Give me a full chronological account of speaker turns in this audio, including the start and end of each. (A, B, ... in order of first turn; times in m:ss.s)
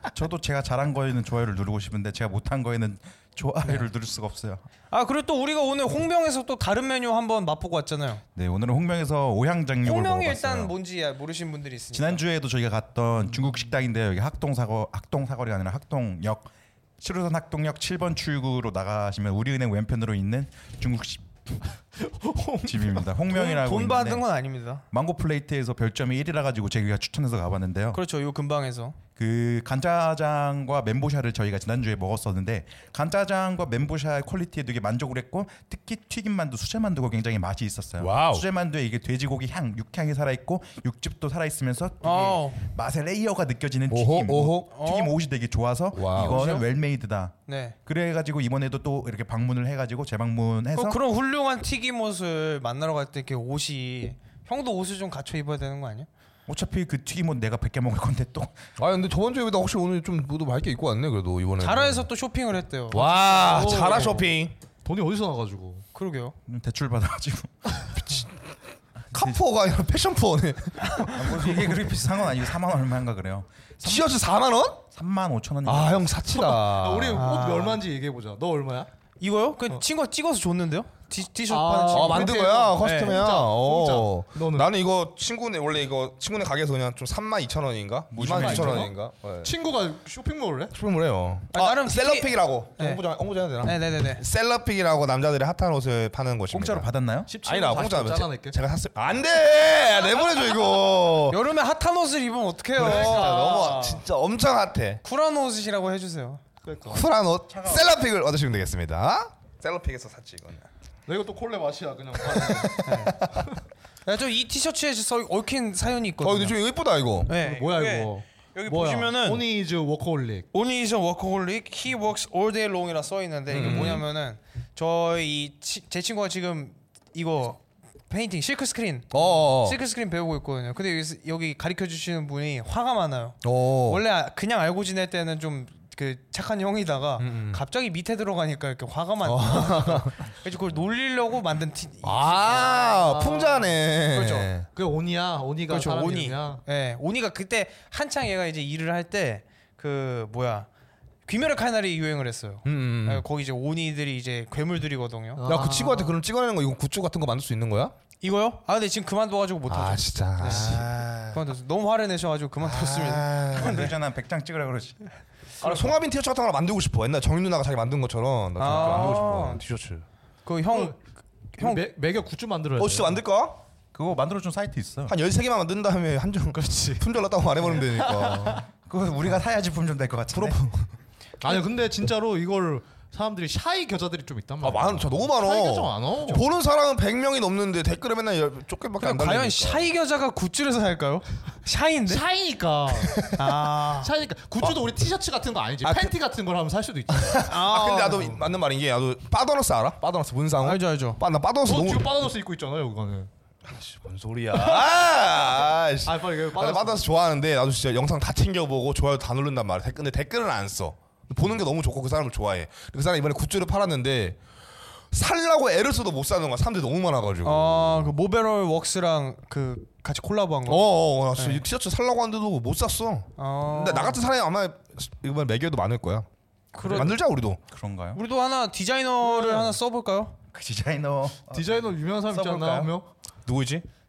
0:00.1-0:04.6 A
0:04.9-0:08.2 B
0:08.3-0:10.7 A
0:09.8-0:12.2 B
0:11.9-0:16.5 A
0:17.0-0:21.6 A
0:22.0-0:23.1 C
0:22.6-0:24.2 A
0:23.3-0:24.8 B
0:24.9-0:28.0 A
0:27.9-0:29.0 B
0:29.2-0:51.0 A
0:38.0-0:38.4 D
0:42.0-0:42.6 B
0:43.9-0:44.7 D
0:44.7-0:45.1 B
0:45.9-0:46.4 D
0:46.2-0:46.6 B
0:47.5-0:47.7 B
0:50.7-0:56.1 B
0:56.5-0:58.6 A
0:58.8-1:02.1 D
1:01.6-1:04.2 B
1:02.9-1:04.5 D
1:03.4-1:04.2 C
1:04.8-1:05.8 C
1:05.9-1:06.3 B
1:06.4-1:08.1 A
1:09.1-1:11.8 D
1:09.1-1:09.4 A
1:11.1-1:14.1 A
1:13.8-1:14.8 D
1:14.9-1:16.2 A
1:15.6-1:17.3 D
1:16.3-1:18.9 C
1:17.1-1:17.8 B
1:19.2-1:23.2 B
1:21.5-1:24.7 C
1:21.9-1:29.5 D
1:28.1-1:28.9 A
1:28.3-1:30.7 C
1:30.7-1:36.9 D
1:31.5-1:33.0 B
1:33.6-1:34.2 B
1:36.5-1:37.3 A
1:37.3-1:38.6 C
1:37.4-1:41.4 D
1:41.3-1:44.0 B
1:42.8-1:43.7 C
1:42.8-1:45.0 D
1:45.0-1:46.4 B
1:46.6-1:47.0 C
1:46.9-1:50.6 D
1:47.5-1:47.9 A
1:51.0-1:53.6 C
1:52.3-1:53.3 D
1:52.8-1:53.2 B
1:54.0-1:56.6 B
1:56.2-1:57.3 D
1:57.2-1:59.4 B
1:57.3-2:00.5 C
2:00.5-2:23.1 B
2:03.5-2:04.0 D
2:09.1-2:09.8 D
2:13.4-2:14.0 D
2:17.2-2:17.6 D
2:19.2-2:20.1 D
2:22.0-2:24.6 D
2:23.0-2:23.7 C
2:24.1-2:24.5 B
2:24.6-2:26.6 C
2:25.7-2:30.7 B
2:31.2-2:35.5 B
2:32.6-2:33.2 D
2:35.4-2:36.1 C
2:35.4-2:37.9 D
2:38.2-2:43.9 B
2:39.7-2:41.4 D
2:40.5-2:40.8 C
2:42.6-2:43.9 D
2:43.5-2:45.0 A
2:45.6-2:50.0 D
2:45.6-2:46.0 C
2:48.6-2:49.6 B
2:50.4-2:51.0 B
2:50.7-2:51.0 C
2:51.6-2:51.8 B
2:51.6-2:53.2 C
2:52.8-2:53.6 D
2:53.9-2:55.1 A
2:55.1-2:58.6 D
2:56.5-2:57.0 C
2:57.6-2:58.6 C
2:58.8-3:00.6 A
3:00.3-3:00.9 D
3:01.4-3:06.4 C
3:04.6-3:09.9 D
3:09.0-3:12.2 B
3:12.1-3:17.5 C
3:13.3-3:14.1 B
3:15.8-3:16.1 D
3:17.1-3:22.2 D
3:17.4-3:18.4 B
3:20.6-3:21.2 B
3:21.6-3:23.3 C
3:23.6-3:34.4 D
3:24.5-3:24.8 C
3:26.0-3:27.0 C
3:35.1-3:38.1 D
3:37.4-3:41.6 B
3:40.7-3:47.6 D
3:43.4-3:44.2 B
3:46.7-3:47.2 B
3:47.7-3:48.2 A
3:48.1-3:50.4 B
3:49.2-3:49.8 A
3:50.5-3:52.9 A
3:51.5-3:53.1 C
3:53.4-3:53.8 D